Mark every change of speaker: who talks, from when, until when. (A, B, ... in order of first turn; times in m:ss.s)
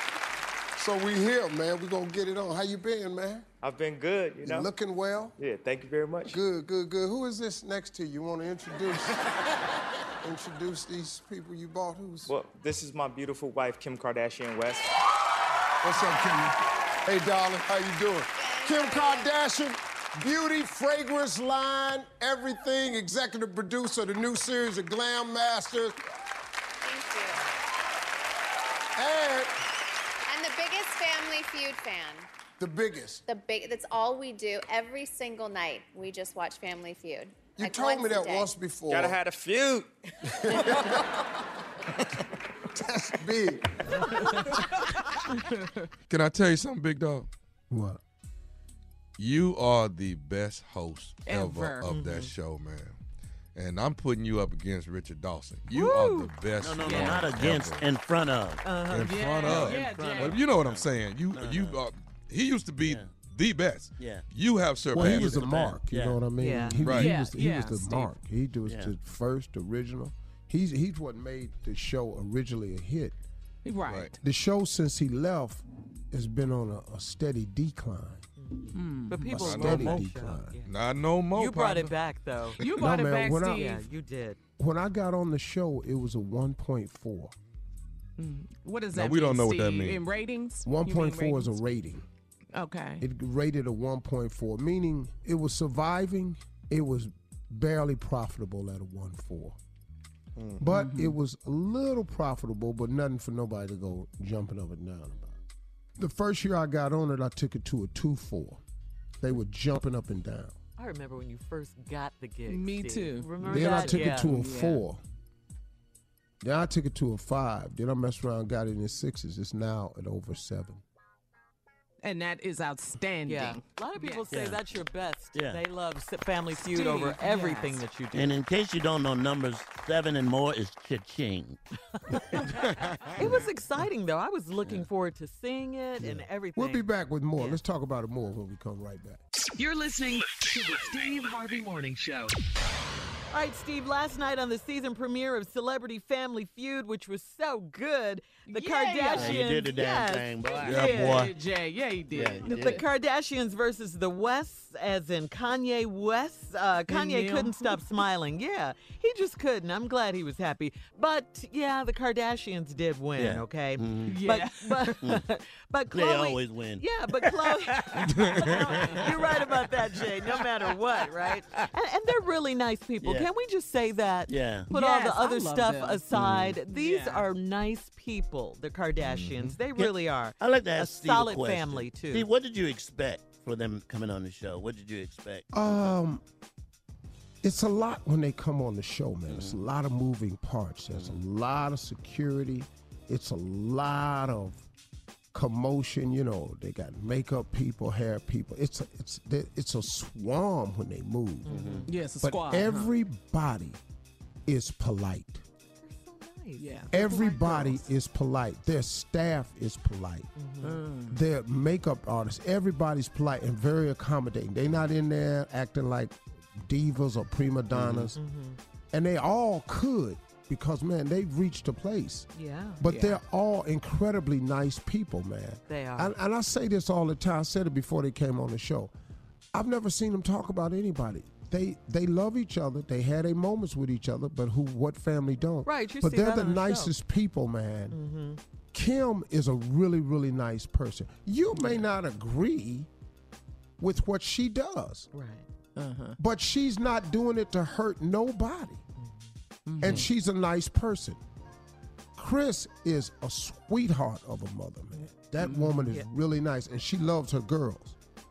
0:00.8-0:03.5 A
0:03.6-0:04.7 B
0:04.4-0:05.4 A
0:05.4-0:06.4 B
0:06.3-0:09.2 A
0:10.2-0:12.3 A
0:12.3-0:14.9 B
0:15.8-0:26.0 A
0:18.4-0:19.3 C
0:26.8-0:27.4 C
0:29.0-0:29.5 A
0:30.3-0:32.3 C
0:32.6-0:33.2 A
0:33.3-0:38.5 C
0:37.6-0:39.2 A
0:38.9-0:39.9 B
0:40.3-0:41.0 A
0:42.7-0:44.2 A
0:44.1-0:44.6 D
0:45.4-0:45.8 D
0:46.1-0:47.3 E
0:47.7-0:48.0 A
0:49.2-0:53.0 E
0:51.3-0:51.9 D
0:51.9-0:52.3 F
0:53.6-0:57.8 E
0:55.7-0:56.3 F
0:56.6-0:58.6 G
0:56.8-0:57.3 D
0:58.6-0:59.2 F
0:58.9-1:05.8 E
0:59.0-1:00.4 D
0:59.4-1:01.8 G
1:02.8-1:03.1 G
1:04.0-1:04.2 G
1:04.9-1:13.2 A
1:05.0-1:06.2 G
1:06.4-1:06.8 F
1:06.8-1:07.1 E
1:06.9-1:08.1 D
1:08.7-1:08.9 G
1:13.6-1:14.2 D
1:13.9-1:14.1 E
1:14.2-1:18.3 A
1:18.4-1:20.7 F
1:18.7-1:19.4 D
1:19.3-1:20.6 A
1:19.3-1:20.1 E
1:20.7-1:21.9 E
1:21.3-1:22.6 F
1:22.6-1:23.8 D
1:22.7-1:23.7 A
1:23.4-1:24.4 F
1:24.6-1:27.3 A
1:28.2-1:31.6 D
1:28.9-1:30.0 E
1:30.6-1:32.1 A
1:32.5-1:33.0 D
1:33.0-1:39.6 A
1:40.4-1:40.6 E
1:40.6-1:45.2 A
1:40.7-1:41.2 D
1:46.0-1:48.6 A
1:49.2-1:50.6 A
1:50.8-1:54.3 F
1:52.5-1:54.9 D
1:53.4-1:55.0 A
1:56.4-2:00.8 A
2:02.0-2:04.3 D
2:03.3-2:08.4 F
2:04.3-2:04.6 G
2:05.3-2:05.6 G
2:06.5-2:07.8 D
2:08.1-2:11.6 G
2:13.2-2:17.6 F
2:16.6-2:19.2 A
2:19.6-2:22.3 H
2:23.3-2:31.3 F
2:28.5-2:29.7 D
2:29.1-2:31.3 G
2:30.4-2:32.8 D
2:30.6-2:31.3 E
2:32.1-2:32.8 G
2:32.4-3:02.3 F
2:36.9-2:37.8 D
2:43.2-2:44.2 G
2:44.0-2:45.0 D
2:45.9-2:46.9 G
2:48.1-2:48.6 E
2:53.0-2:53.3 G
2:54.3-2:54.7 G
2:54.7-2:56.1 D
2:56.2-2:56.5 G
2:56.6-2:57.3 D
2:59.0-2:59.5 E
2:59.8-3:05.9 G
3:05.5-3:06.2 A
3:07.4-3:14.6 A
3:09.3-3:09.6 G
3:10.9-3:11.2 G
3:15.3-3:21.6 A
3:21.4-3:21.9 F
3:21.5-3:21.9 G
3:21.9-3:22.9 D
3:22.2-3:23.8 A
3:24.5-3:25.4 A
3:25.8-3:27.1 F
3:26.6-3:27.8 D
3:26.9-3:30.3 A
3:30.4-3:30.8 F
3:30.6-3:31.2 D
3:31.1-3:38.2 A
3:37.8-3:38.1 G
3:38.2-3:38.6 F
3:38.9-3:42.3 A
3:42.4-3:42.8 F
3:42.8-3:48.9 A
3:42.8-3:43.2 D
3:45.7-3:46.2 F
3:49.5-3:58.0 A
3:55.6-3:56.9 F
3:57.9-3:58.4 F
3:58.7-4:02.9 A
4:03.8-4:05.1 A
4:05.1-4:05.5 F
4:05.8-4:06.2 D
4:06.2-4:08.8 A
4:09.0-4:09.3 F
4:09.7-4:10.1 D
4:09.8-4:11.2 A
4:12.2-4:18.0 A
4:15.4-4:15.9 D